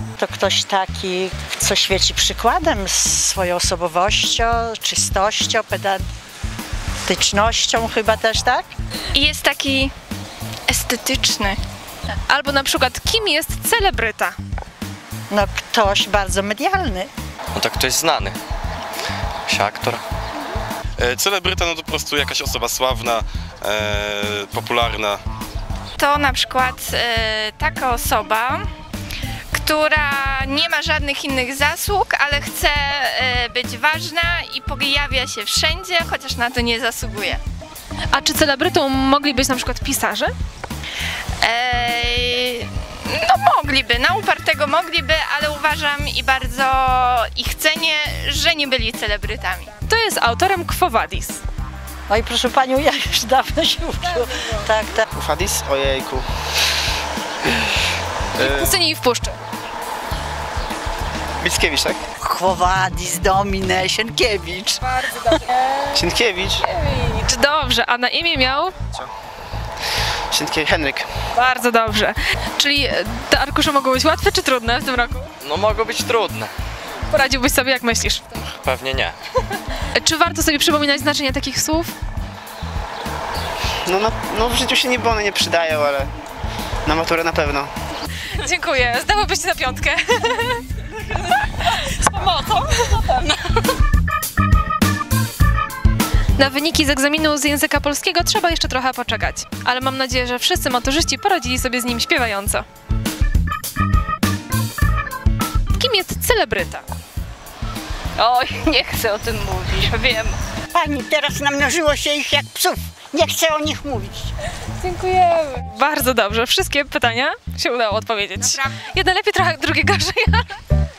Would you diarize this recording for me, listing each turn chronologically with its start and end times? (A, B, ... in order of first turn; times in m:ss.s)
0:00.2-0:06.0 A
0:07.0-0:08.7 A
0:09.1-0:09.9 B
0:10.7-0:11.6 B
0:12.3-0:14.4 C
0:15.3-0:17.1 A
0:17.5-0:18.4 D
0:19.5-0:20.0 D
0:21.0-0:25.2 E
0:26.0-0:28.6 B
0:29.5-0:37.4 B
0:38.1-0:40.3 C
0:41.4-0:49.7 B
0:49.9-0:51.4 C
0:52.1-0:55.0 A
0:55.1-0:56.2 F
0:58.4-0:58.8 F
0:58.4-0:59.4 C
1:01.4-1:02.0 F
1:02.2-1:04.9 A
1:05.9-1:06.6 F
1:06.7-1:08.7 C
1:10.3-1:11.0 F
1:11.3-1:15.3 C
1:15.4-1:16.5 D
1:17.1-1:18.2 C
1:18.4-1:19.2 D
1:19.8-1:21.9 C
1:23.9-1:26.1 F
1:26.8-1:27.7 F
1:28.3-1:30.6 C
1:36.4-1:42.6 C
1:45.7-1:46.8 C
1:48.2-1:50.4 G
1:50.7-1:54.3 H
1:54.8-2:00.6 C